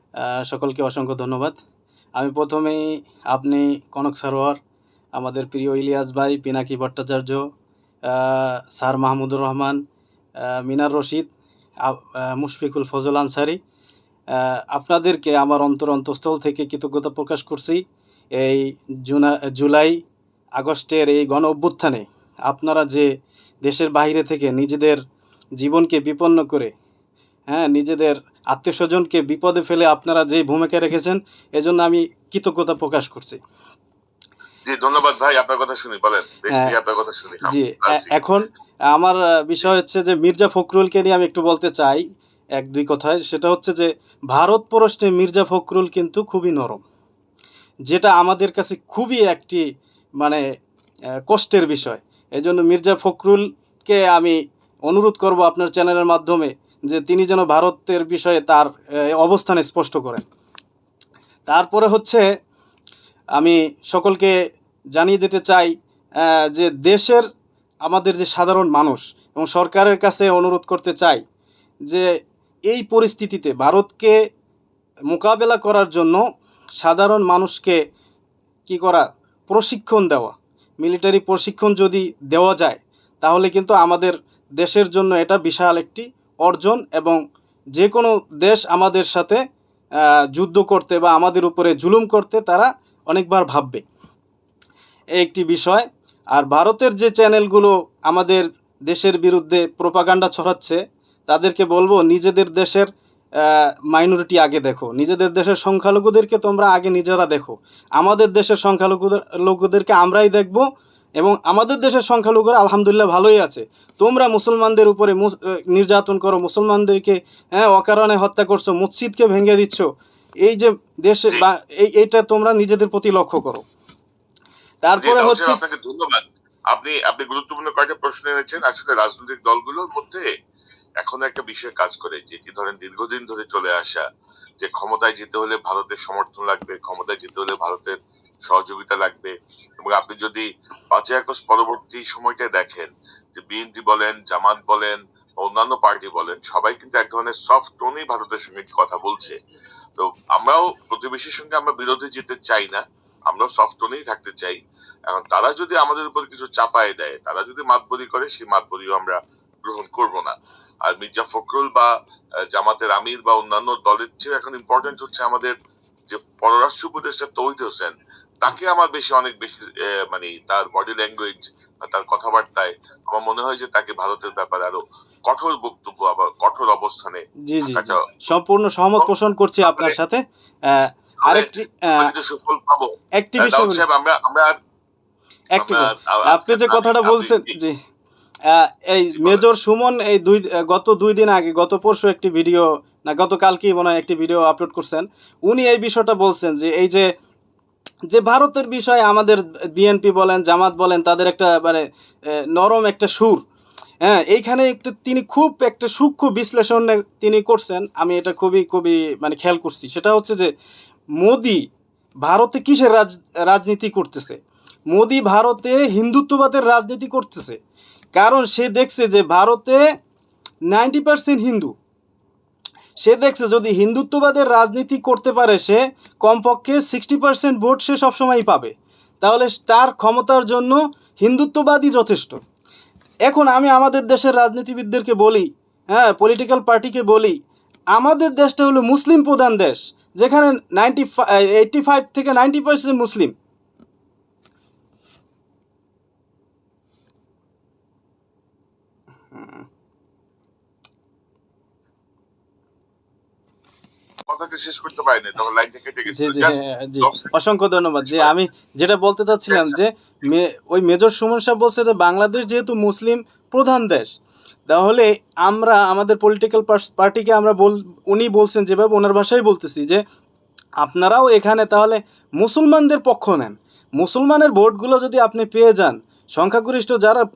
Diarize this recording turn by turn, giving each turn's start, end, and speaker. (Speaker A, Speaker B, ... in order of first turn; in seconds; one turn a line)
Speaker A: 0.2-1.6
Speaker A: 2.2-4.6
Speaker A: 5.2-7.5
Speaker A: 8.1-9.8
Speaker A: 10.4-11.3
Speaker A: 11.8-13.6
Speaker A: 14.3-17.8
Speaker A: 18.4-20.0
Speaker A: 20.6-23.1
Speaker A: 23.6-25.0
Speaker A: 25.6-26.7
Speaker A: 27.5-33.4
Speaker B: 34.7-38.1
Speaker A: 37.4-42.0
Speaker A: 42.6-46.8
Speaker A: 47.9-49.6
Speaker A: 51.3-54.4
Speaker A: 54.9-60.2
Speaker A: 61.5-62.3
Speaker A: 63.4-64.3
Speaker A: 65.0-65.7
Speaker A: 66.5-67.3
Speaker A: 67.9-71.2
Speaker A: 72.7-74.2
Speaker A: 75.1-76.2
Speaker A: 76.8-77.8
Speaker A: 78.7-87.2
Speaker A: 87.8-89.4
Speaker A: 90.3-93.8
Speaker A: 95.2-102.9
Speaker A: 103.4-110.7
Speaker A: 111.2-119.9
Speaker A: 120.4-123.6
Speaker A: 124.8-125.6
Speaker B: 125.0-130.3
Speaker B: 131.0-134.0
Speaker B: 134.6-149.4
Speaker B: 150.0-161.9
Speaker B: 162.5-165.6
Speaker B: 166.1-178.1
Speaker A: 177.5-182.1
Speaker B: 179.6-180.0
Speaker B: 181.2-184.6
Speaker A: 183.2-183.8
Speaker A: 185.6-187.8
Speaker B: 185.6-187.6
Speaker A: 188.5-197.1
Speaker A: 198.1-203.4
Speaker A: 204.0-210.5
Speaker A: 211.2-211.6
Speaker A: 212.2-214.4
Speaker A: 214.9-217.6
Speaker A: 218.2-219.8
Speaker A: 220.7-221.7
Speaker A: 223.0-232.4
Speaker A: 233.3-237.4
Speaker A: 237.9-243.3
Speaker A: 249.3-249.7
Speaker B: 254.3-257.3
Speaker A: 256.1-264.1
Speaker B: 258.0-258.3
Speaker B: 259.5-259.8
Speaker A: 264.7-270.0
Speaker A: 270.8-277.2